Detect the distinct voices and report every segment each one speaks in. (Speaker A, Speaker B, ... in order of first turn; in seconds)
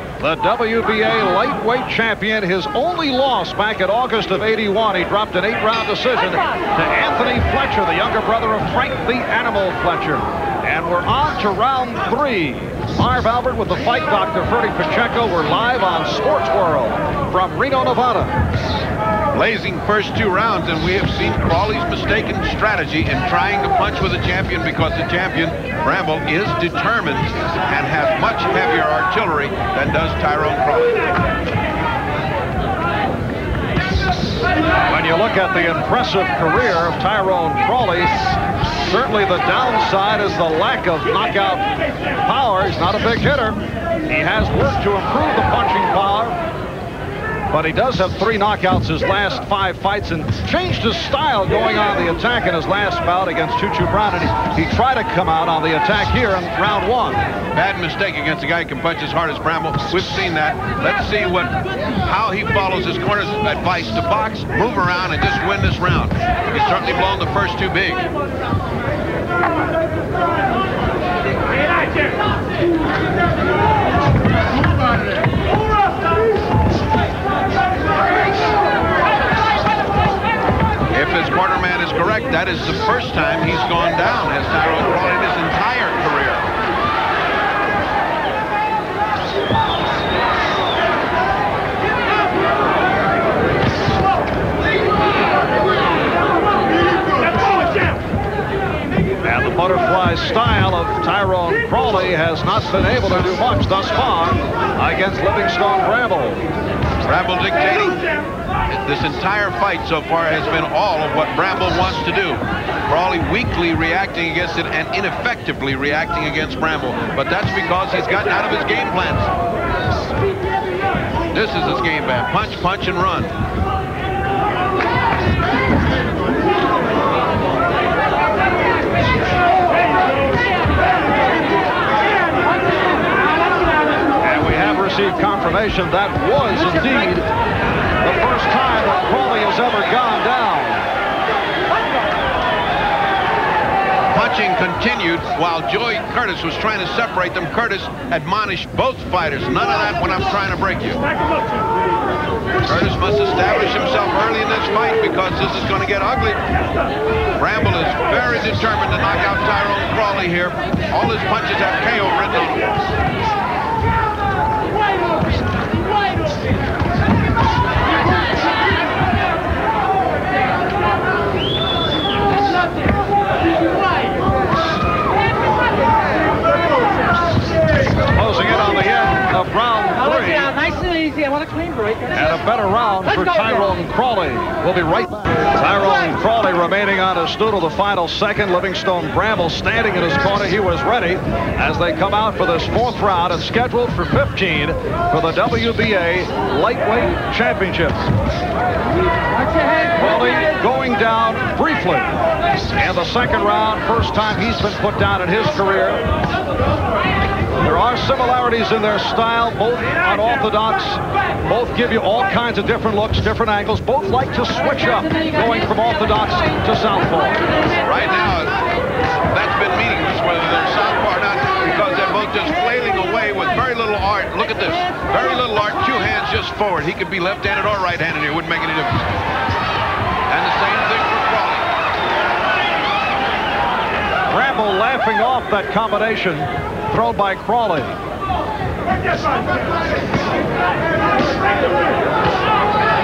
Speaker A: 0.2-18.4, 34.9-38.1, 38.9-46.4, 47.5-57.2, 99.2-106.5, 134.2-137.3, 138.0-140.9, 178.1-180.5, 182.1-198.1, 199.9-202.1, 202.8-206.0, 207.6-217.4, 234.3-238.0
Speaker B: 19.3-31.0, 57.5-68.1, 80.9-86.5, 107.0-108.1, 108.7-119.3, 121.3-123.3, 144.1-151.0, 152.6-156.4, 157.4-162.7, 217.8-218.5, 219.3-229.0, 230.3-231.7
Speaker C: 180.0-182.2, 183.2-183.5